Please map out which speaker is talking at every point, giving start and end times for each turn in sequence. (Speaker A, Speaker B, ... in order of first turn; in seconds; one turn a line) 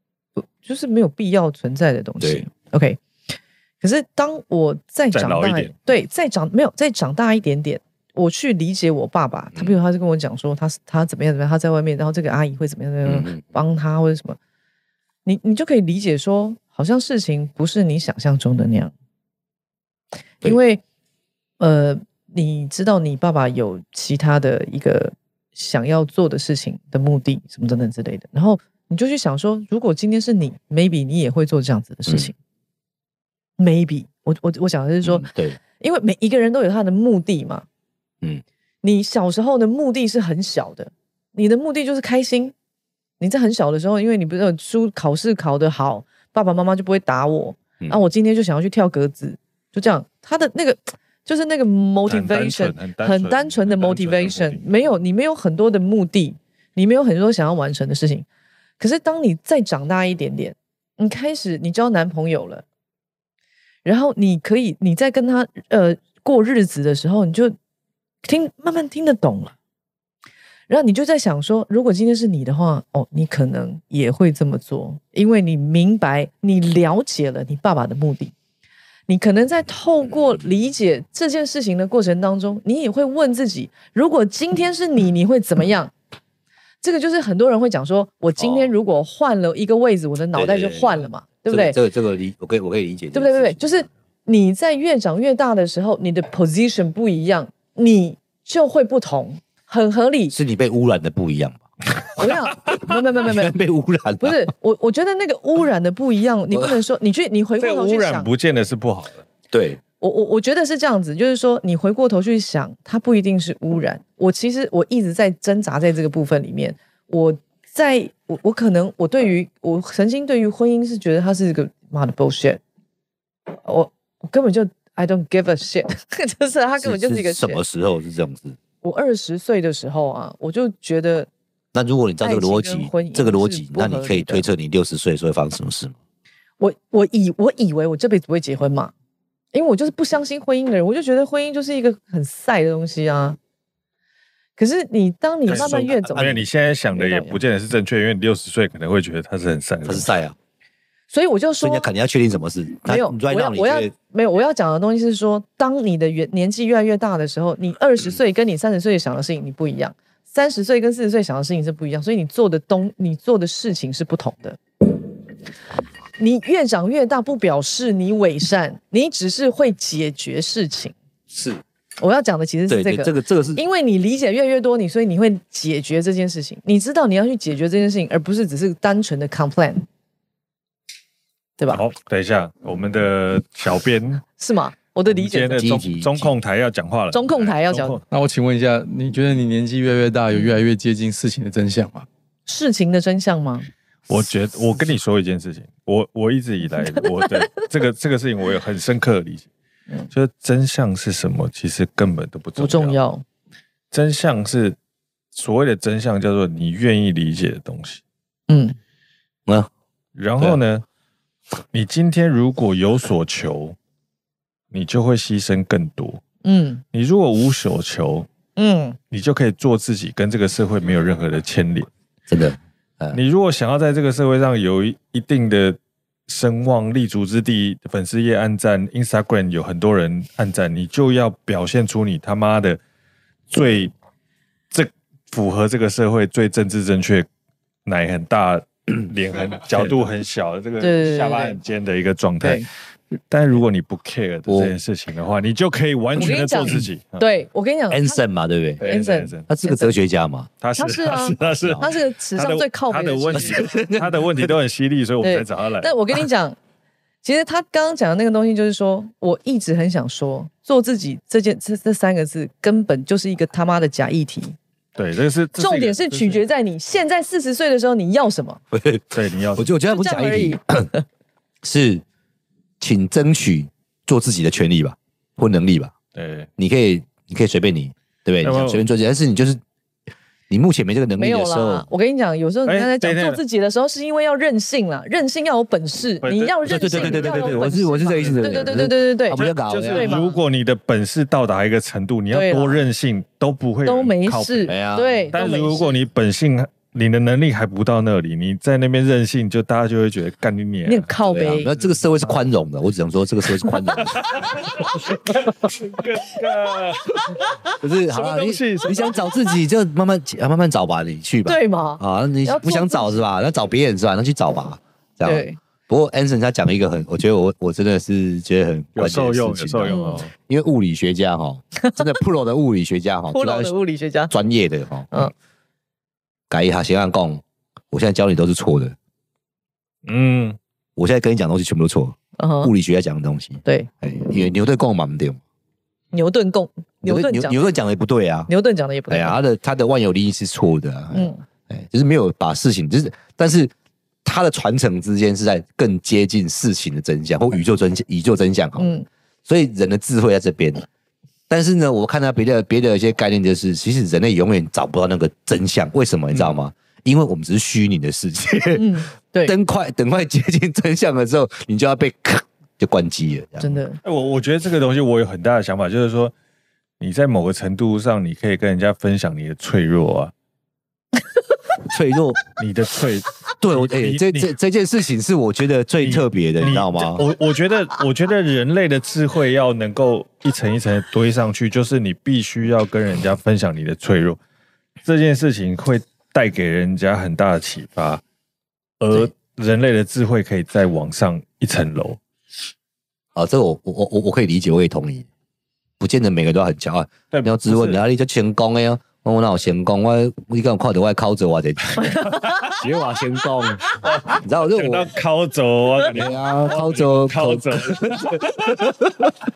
Speaker A: 0.6-3.0
Speaker B: 2.2-2.5
Speaker A: 3.8-14.4
Speaker C: 5.1-5.7
Speaker B: 13.1-13.4
Speaker A: 15.3-18.9
Speaker A: 20.4-20.8
Speaker A: 21.6-32.4
Speaker A: 33.6-37.6
Speaker B: 35.0-35.6
Speaker A: 38.8-42.5
Speaker A: 43.2-58.3
Speaker C: 52.1-54.7
Speaker A: 58.8-62.6
Speaker A: 63.9-67.5
Speaker A: 68.2-69.5
Speaker A: 70.7-78.3
Speaker A: 79.1-85.9
Speaker A: 86.8-91.8
Speaker B: 88.4-88.7
Speaker B: 90.3-93.8
Speaker A: 93.1-100.3
Speaker B: 100.3-101.6
Speaker A: 102.2-103.5
Speaker B: 103.2-104.4
Speaker A: 104.2-108.3
Speaker C: 107.6-109.2
Speaker B: 109.5-109.8
Speaker A: 110.0-122.6
Speaker A: 123.6-127.6
Speaker B: 126.8-128.6
Speaker A: 128.8-131.3
Speaker B: 131.7-135.9
Speaker A: 132.2-134.5
Speaker A: 136.6-138.9
Speaker A: 139.5-143.4
Speaker A: 144.6-147.4
Speaker C: 145.4-150.1
Speaker B: 145.5-146.4
Speaker B: 149.9-150.4
Speaker A: 151.1-151.9
Speaker B: 151.6-153.9
Speaker A: 152.9-164.6
Speaker A: 166.2-170.9
Speaker B: 171.3-171.6
Speaker A: 172.0-179.8
Speaker B: 172.7-173.6
Speaker C: 181.7-184.2
Speaker A: 184.4-185.7
Speaker C: 185.1-188.0
Speaker B: 185.6-186.3
Speaker A: 187.1-188.0
Speaker D: 188.1-192.1
Speaker A: 190.3-190.6
Speaker A: 192.5-193.7
Speaker C: 194.1-199.5
Speaker A: 196.7-197.6
Speaker C: 200.1-203.0
Speaker A: 202.6-203.2
Speaker C: 203.9-204.8
Speaker C: 205.3-208.0
Speaker A: 208.5-208.8
Speaker C: 210.1-210.8
Speaker C: 211.7-213.8
Speaker C: 214.7-216.2
Speaker A: 216.4-216.8
Speaker C: 216.9-218.3
Speaker A: 218.6-219.0
Speaker C: 219.1-221.9
Speaker B: 222.3-223.2
Speaker C: 223.1-232.8
Speaker C: 233.5-233.9
Speaker C: 234.7-237.3
Speaker C: 237.8-242.7
Speaker A: 240.8-241.6
Speaker A: 242.4-242.7
Speaker C: 243.3-247.2
Speaker B: 244.5-244.7
Speaker A: 246.2-248.2
Speaker B: 247.9-248.8
Speaker C: 248.8-249.4
Speaker A: 248.8-249.9
Speaker B: 249.5-250.5
Speaker C: 250.6-255.9
Speaker A: 250.8-253.8
Speaker B: 251.5-251.8
Speaker B: 253.3-254.5
Speaker A: 255.2-256.6
Speaker A: 257.2-264.6
Speaker C: 264.9-266.4
Speaker A: 265.6-268.6
Speaker B: 268.7-270.9
Speaker C: 269.1-269.7
Speaker A: 269.9-271.0
Speaker B: 271.6-272.0
Speaker B: 272.8-275.9
Speaker C: 276.1-276.5
Speaker B: 276.6-279.6
Speaker C: 278.4-278.8
Speaker B: 280.5-281.9
Speaker A: 281.2-290.4
Speaker C: 282.7-283.4
Speaker C: 286.2-288.7
Speaker B: 286.6-290.2
Speaker C: 289.4-294.7
Speaker A: 292.3-292.9
Speaker A: 293.9-296.0
Speaker B: 294.7-295.3
Speaker C: 295.3-301.1
Speaker A: 300.9-301.7
Speaker B: 301.3-304.3
Speaker C: 304.0-307.4
Speaker B: 307.8-323.7
Speaker C: 308.1-309.1
Speaker A: 311.4-313.2
Speaker A: 315.2-315.6
Speaker C: 318.9-320.3
Speaker A: 319.9-320.2
Speaker A: 323.3-324.3
Speaker B: 324.3-325.2
Speaker B: 326.5-328.9
Speaker C: 330.1-330.6
Speaker B: 330.9-335.4
Speaker A: 332.4-332.7
Speaker A: 336.1-337.7
Speaker B: 337.0-338.5
Speaker A: 338.5-339.4
Speaker B: 339.1-343.7
Speaker A: 341.1-341.4
Speaker B: 344.2-350.9
Speaker A: 348.8-349.1
Speaker B: 351.5-358.9
Speaker A: 358.7-359.5
Speaker B: 359.4-363.8
Speaker A: 363.6-364.0
Speaker C: 364.0-366.3
Speaker C: 367.0-370.3
Speaker B: 371.9-372.4
Speaker C: 372.6-374.5
Speaker B: 373.6-377.2
Speaker C: 376.0-384.4
Speaker C: 385.0-388.2
Speaker C: 389.0-392.2
Speaker B: 393.4-395.3
Speaker B: 396.0-402.1
Speaker C: 397.3-398.0
Speaker A: 402.0-402.8
Speaker B: 402.7-405.1
Speaker C: 404.1-408.9
Speaker B: 406.1-409.3